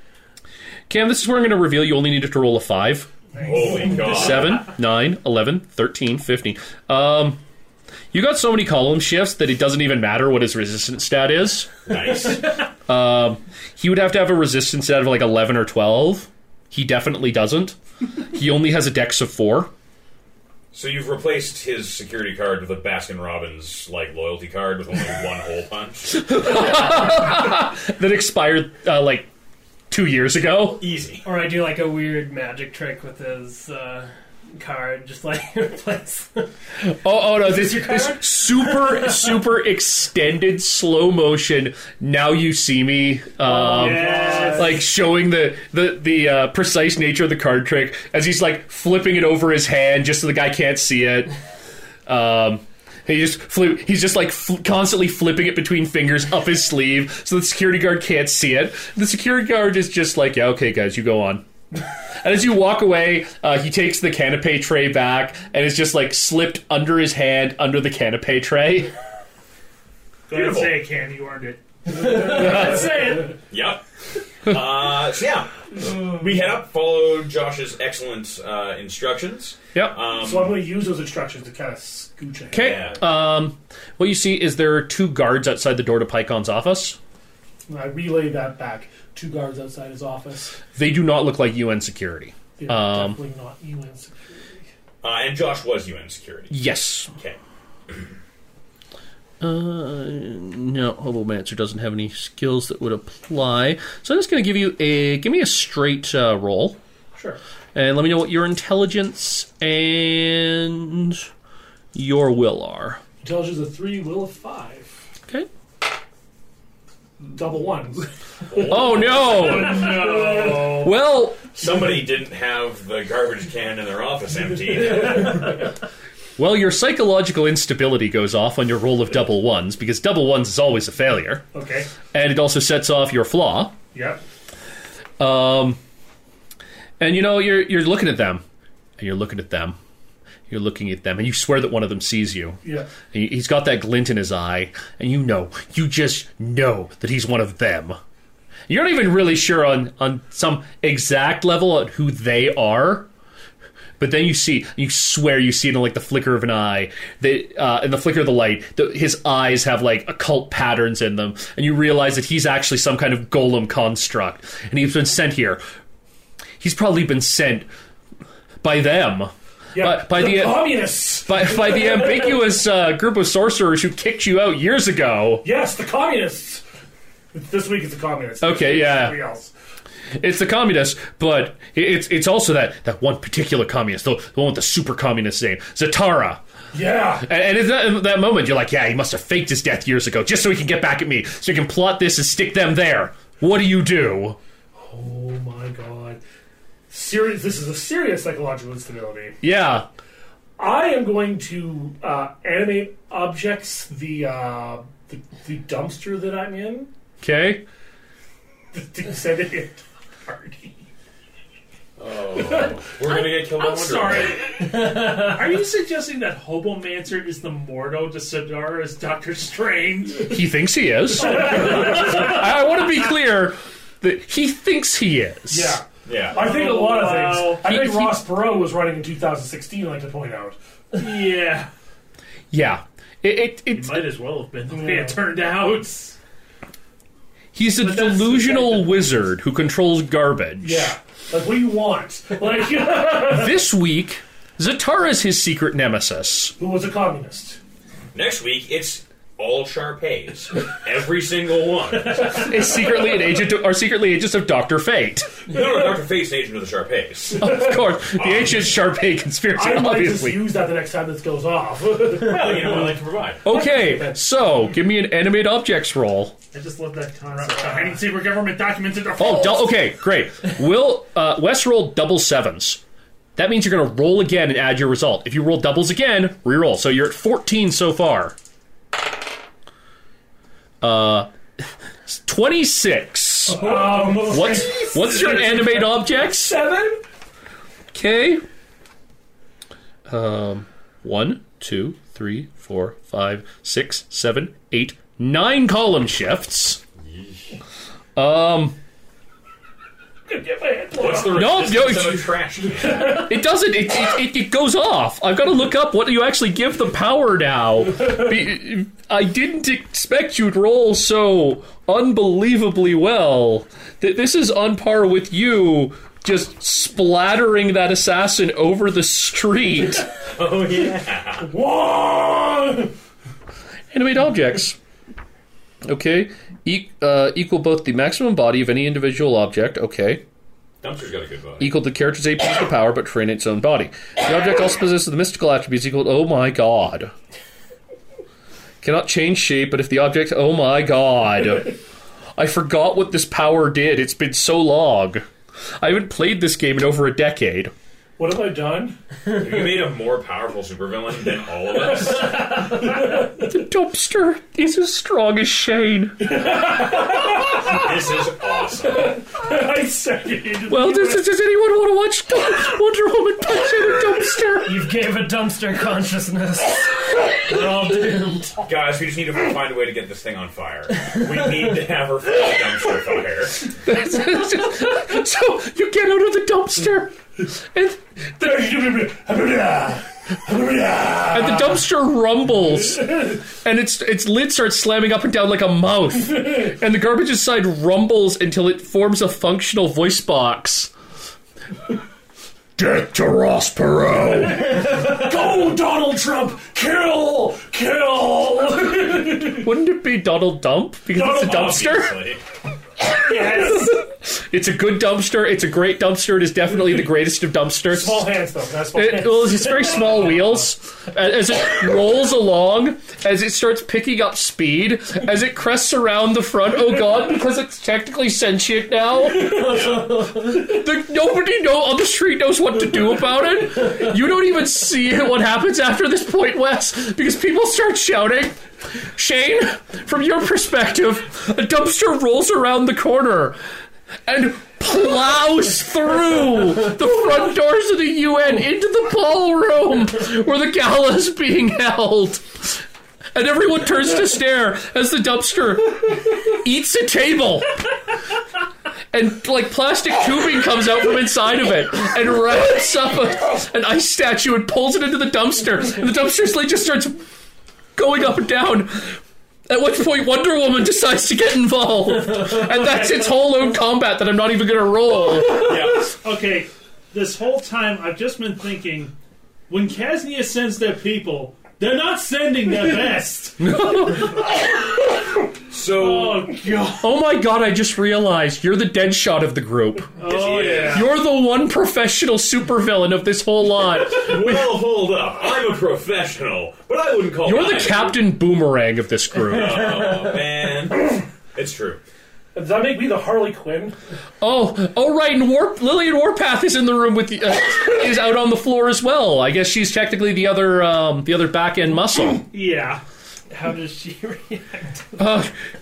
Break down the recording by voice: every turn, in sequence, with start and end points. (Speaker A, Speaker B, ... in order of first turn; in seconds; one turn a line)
Speaker A: 0.9-3.1
Speaker B: 3.4-4.7
Speaker A: 3.8-7.4
Speaker A: 8.1-11.9
Speaker B: 11.8-12.6
Speaker A: 12.8-19.7
Speaker B: 20.7-26.2
Speaker A: 26.1-29.3
Speaker A: 29.9-30.8
Speaker B: 30.8-31.2
Speaker C: 31.2-36.5
Speaker A: 36.8-51.3
Speaker C: 37.4-39.4
Speaker C: 43.5-44.8
Speaker D: 43.5-44.8
Speaker E: 43.7-44.7
Speaker A: 52.0-61.5
Speaker A: 62.2-68.9
Speaker E: 70.3-73.2
Speaker B: 70.3-70.8
Speaker D: 71.9-73.3
Speaker B: 73.5-73.8
Speaker B: 74.4-80.6
Speaker D: 80.1-82.9
Speaker B: 82.5-83.0
Speaker A: 82.5-87.0
Speaker D: 87.7-90.6
Speaker A: 90.8-93.2
Speaker D: 92.6-94.7
Speaker B: 95.0-96.6
Speaker A: 96.5-97.1
Speaker A: 99.4-106.8
Speaker A: 107.7-111.3
Speaker A: 111.9-113.0
Speaker D: 113.2-114.9
Speaker D: 117.3-118.0
Speaker B: 118.5-120.5
Speaker D: 118.6-120.9
Speaker A: 118.6-120.0
Speaker E: 119.8-120.6
Speaker A: 120.5-121.5
Speaker B: 121.6-125.5
Speaker A: 126.4-131.4
Speaker D: 131.5-131.9
Speaker A: 132.1-133.8
Speaker D: 133.9-134.2
Speaker A: 135.2-135.8
Speaker A: 137.0-138.4
Speaker A: 139.0-139.8
Speaker A: 140.5-148.0
Speaker D: 142.6-142.9
Speaker A: 148.7-153.1
Speaker A: 154.0-165.6
Speaker A: 166.6-167.7
Speaker A: 168.6-175.4
Speaker D: 169.7-172.4
Speaker D: 175.4-176.6
Speaker D: 177.3-179.5
Speaker A: 178.4-179.2
Speaker A: 180.2-186.4
Speaker D: 186.7-187.3
Speaker A: 187.2-194.4
Speaker D: 194.7-196.2
Speaker D: 196.9-199.4
Speaker A: 199.4-199.8
Speaker D: 200.6-206.9
Speaker A: 207.2-207.6
Speaker D: 208.7-210.8
Speaker B: 212.0-214.4
Speaker E: 213.0-220.4
Speaker C: 214.9-215.2
Speaker A: 220.3-225.8
Speaker D: 221.2-222.3
Speaker E: 221.2-222.2
Speaker D: 225.5-230.6
Speaker B: 226.1-226.5
Speaker E: 226.3-227.6
Speaker A: 227.5-228.2
Speaker E: 230.9-231.7
Speaker A: 232.5-234.1
Speaker E: 233.7-236.2
Speaker D: 234.7-235.2
Speaker A: 237.5-240.9
Speaker E: 237.8-238.8
Speaker D: 240.6-243.6
Speaker A: 243.2-246.5
Speaker D: 246.6-247.6
Speaker B: 248.1-252.6
Speaker A: 252.3-255.3
Speaker B: 255.4-258.8
Speaker A: 257.4-260.5
Speaker D: 259.5-263.0
Speaker B: 262.1-263.4
Speaker A: 263.4-266.4
Speaker D: 263.5-264.2
Speaker E: 266.5-269.6
Speaker D: 267.3-268.1
Speaker A: 269.2-272.8
Speaker A: 273.4-278.4
Speaker A: 280.8-281.3
Speaker A: 282.1-286.6
Speaker D: 283.5-287.0
Speaker C: 283.7-284.1
Speaker A: 287.9-288.4
Speaker A: 290.1-296.8
Speaker B: 297.1-297.4
Speaker A: 298.1-298.8
Speaker D: 300.3-301.6
Speaker B: 300.9-303.3
Speaker A: 301.3-302.3
Speaker A: 302.9-320.1
Speaker B: 320.2-321.5
Speaker D: 321.4-322.9
Speaker A: 323.9-324.8
Speaker A: 325.8-330.2
Speaker B: 330.8-331.7
Speaker A: 331.6-337.1
Speaker A: 338.8-341.8
Speaker A: 342.4-345.2
Speaker A: 345.8-347.7
Speaker D: 348.2-348.9
Speaker B: 349.3-352.6
Speaker A: 353.3-356.4
Speaker D: 356.3-357.9
Speaker B: 357.3-359.2
Speaker D: 358.9-361.2
Speaker A: 360.7-364.9
Speaker C: 364.6-368.6
Speaker B: 368.6-373.7
Speaker A: 373.8-378.0
Speaker D: 378.4-381.8
Speaker A: 381.3-390.9
Speaker A: 392.8-394.9
Speaker D: 394.5-399.7
Speaker A: 399.4-402.2
Speaker D: 401.1-401.7
Speaker B: 401.3-402.4
Speaker D: 403.2-404.0
Speaker A: 403.3-408.3
Speaker D: 407.9-410.1
Speaker A: 408.9-433.6
Speaker C: 419.4-420.4
Speaker B: 419.6-420.1
Speaker A: 434.3-447.9
Speaker A: 449.1-457.2
Speaker A: 457.9-465.8
Speaker B: 465.5-466.1
Speaker E: 466.0-469.1
Speaker E: 469.7-473.7
Speaker A: 473.6-474.4
Speaker B: 475.7-476.6
Speaker E: 476.0-477.0
Speaker A: 477.0-480.1
Speaker E: 480.2-481.1
Speaker B: 480.2-481.1
Speaker A: 480.8-484.8
Speaker B: 484.1-488.2
Speaker A: 487.4-490.0
Speaker B: 489.4-492.0
Speaker D: 492.5-493.9
Speaker A: 494.4-502.4
Speaker E: 502.5-503.0
Speaker C: 503.5-505.1
Speaker A: 505.2-505.5